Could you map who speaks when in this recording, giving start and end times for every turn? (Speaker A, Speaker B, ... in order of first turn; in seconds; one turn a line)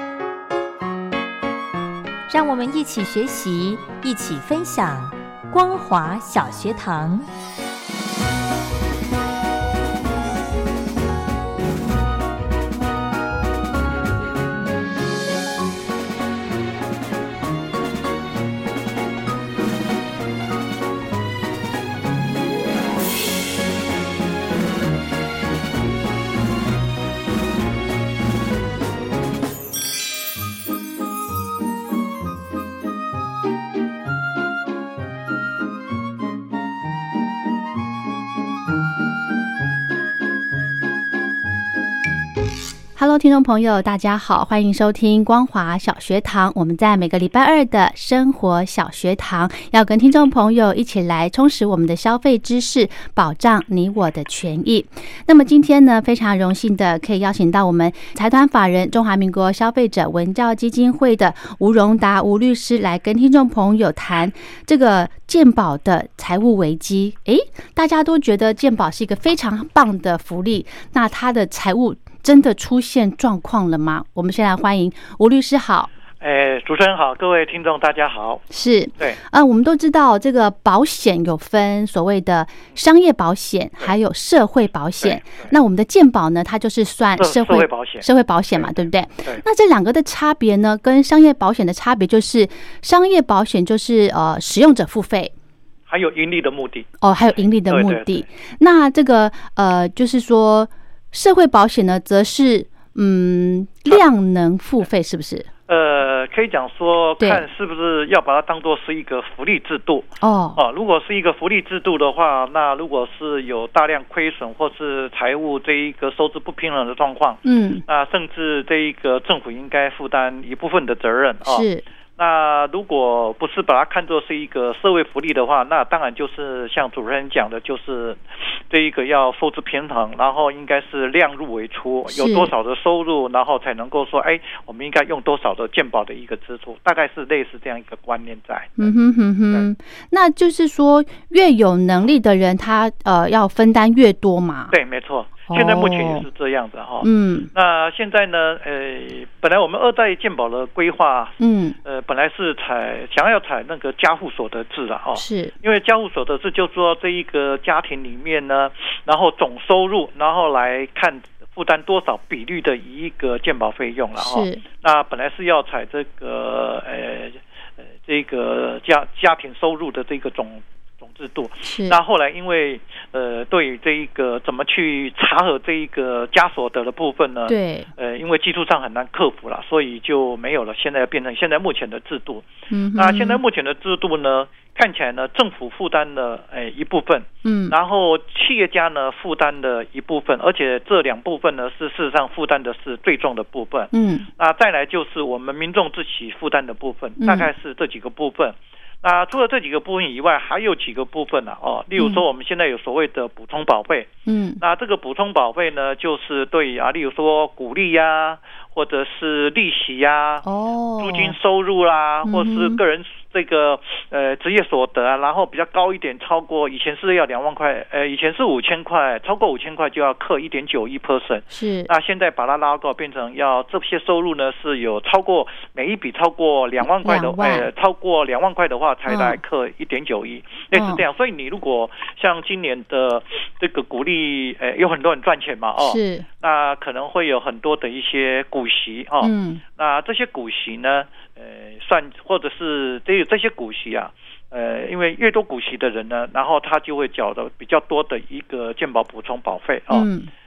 Speaker A: 2.3-7.3
Speaker B: 43.0-75.9
Speaker C: 76.2-78.4
Speaker B: 78.5-95.3
Speaker C: 85.0-85.5
Speaker C: 87.2-89.4
Speaker C: 95.9-98.2
Speaker B: 97.0-105.5
Speaker C: 105.7-121.7
Speaker B: 107.2-107.4
Speaker B: 110.2-110.6
Speaker B: 117.4-117.8
Speaker B: 121.5-121.8
Speaker C: 122.2-138.9
Speaker B: 132.1-132.5
Speaker B: 138.8-144.8
Speaker C: 144.7-210.4
Speaker B: 145.5-146.3
Speaker B: 147.0-147.5
Speaker B: 151.4-151.8
Speaker B: 155.2-155.5
Speaker B: 164.2-164.6
Speaker B: 171.6-172.0
Speaker B: 177.5-177.9
Speaker B: 182.7-183.4
Speaker B: 187.4-187.8
Speaker B: 193.9-194.3
Speaker B: 197.2-197.5
Speaker B: 204.3-204.6
Speaker B: 210.4-211.4
Speaker C: 211.0-250.1
Speaker B: 212.2-212.8
Speaker B: 221.5-221.9
Speaker B: 227.0-227.7
Speaker B: 229.1-229.4
Speaker B: 230.7-231.0
Speaker B: 235.8-236.3
Speaker B: 239.2-239.6
Speaker B: 249.9-250.3